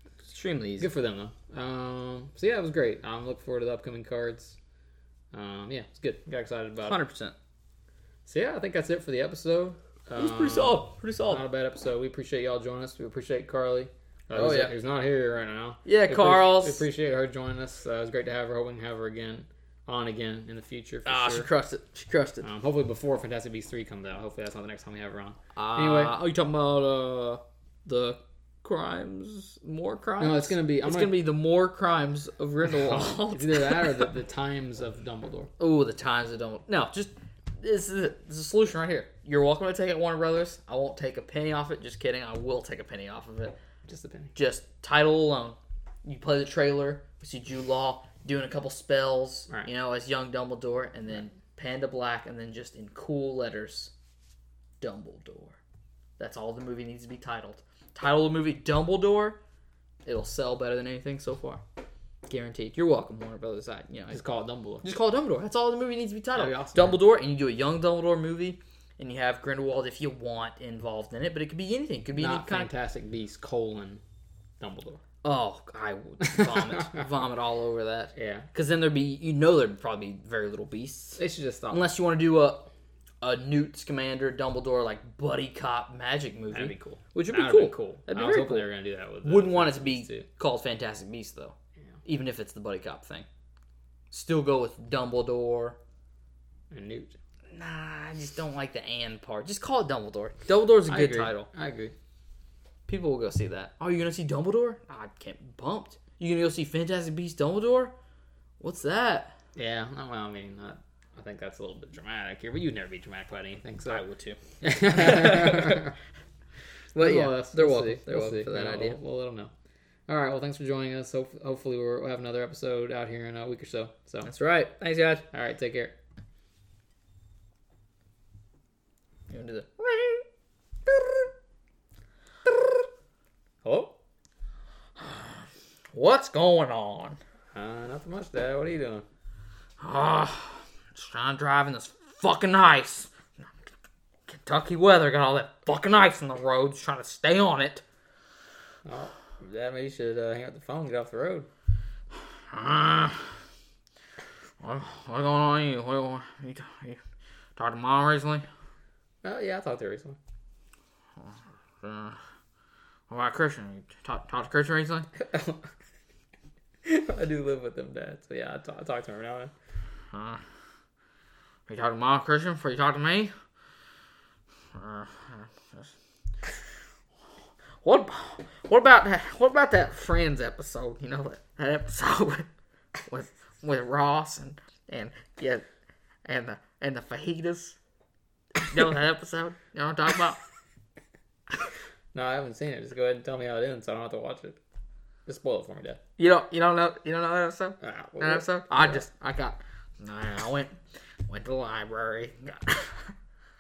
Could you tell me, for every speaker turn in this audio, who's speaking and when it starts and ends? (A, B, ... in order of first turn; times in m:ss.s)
0:00.2-0:00.9 A
0:00.8-0:04.6 B
0:05.3-0:07.0 B
0:06.8-0:07.4 A
0:08.3-0:21.5 B
0:10.2-0:11.4 A
0:14.3-0:14.8 A
0:15.8-0:16.9 A
0:21.1-0:22.5 A
0:22.4-0:26.2 B
0:25.6-0:34.1 A
0:30.2-0:31.2 B
0:32.6-0:35.5 B
0:35.6-0:43.6 A
0:43.9-0:44.4 B
0:44.4-0:53.9 A
0:54.8-0:55.6 A
0:56.2-0:59.4 A
1:00.0-1:01.6 A
1:02.3-1:04.2 A
1:04.1-1:04.9 B
1:04.8-1:12.7 A
1:06.4-1:07.0 B
1:12.2-1:14.0 B
1:14.6-1:15.0 B
1:15.2-1:22.7 A
1:16.4-1:16.8 B
1:18.2-1:18.5 B
1:21.2-1:21.9 B
1:23.2-1:28.7 A
1:26.5-1:30.3 B
1:29.2-1:33.3 A
1:34.1-1:35.8 A
1:36.7-1:37.2 B
1:37.5-1:41.5 A
1:40.9-1:41.9 B
1:42.9-1:47.9 A
1:48.6-1:49.4 A
1:49.6-1:54.0 B
1:53.9-1:55.8 A
1:54.6-1:56.0 B
1:57.0-1:59.0 A
1:57.0-1:59.5 B
2:00.1-2:04.3 B
2:04.2-2:05.2 A
2:05.3-2:06.0 B
2:09.3-2:10.2 A
2:13.6-2:14.0 B
2:15.0-2:15.4 A
2:15.9-2:17.2 A
2:17.5-2:19.1 B
2:19.8-2:23.1 A
2:24.3-2:27.8 A
2:28.8-2:31.5 B
2:32.5-2:33.3 A
2:34.6-2:37.0 A
2:37.6-2:38.5 A
2:39.2-2:40.2 B
2:41.8-2:42.2 A
2:43.1-2:45.1 A
2:45.2-2:45.7 B
2:46.8-2:49.5 B
2:50.1-2:50.4 A
2:51.7-2:53.3 A
2:54.7-2:55.9 A
2:57.8-3:02.5 A
3:03.1-3:05.6 A
3:06.2-3:07.8 A
3:08.6-3:10.4 A
3:12.1-3:14.6 B
3:15.3-3:16.0 B
3:16.2-3:20.8 A
3:17.8-3:19.0 B
3:21.3-3:23.1 A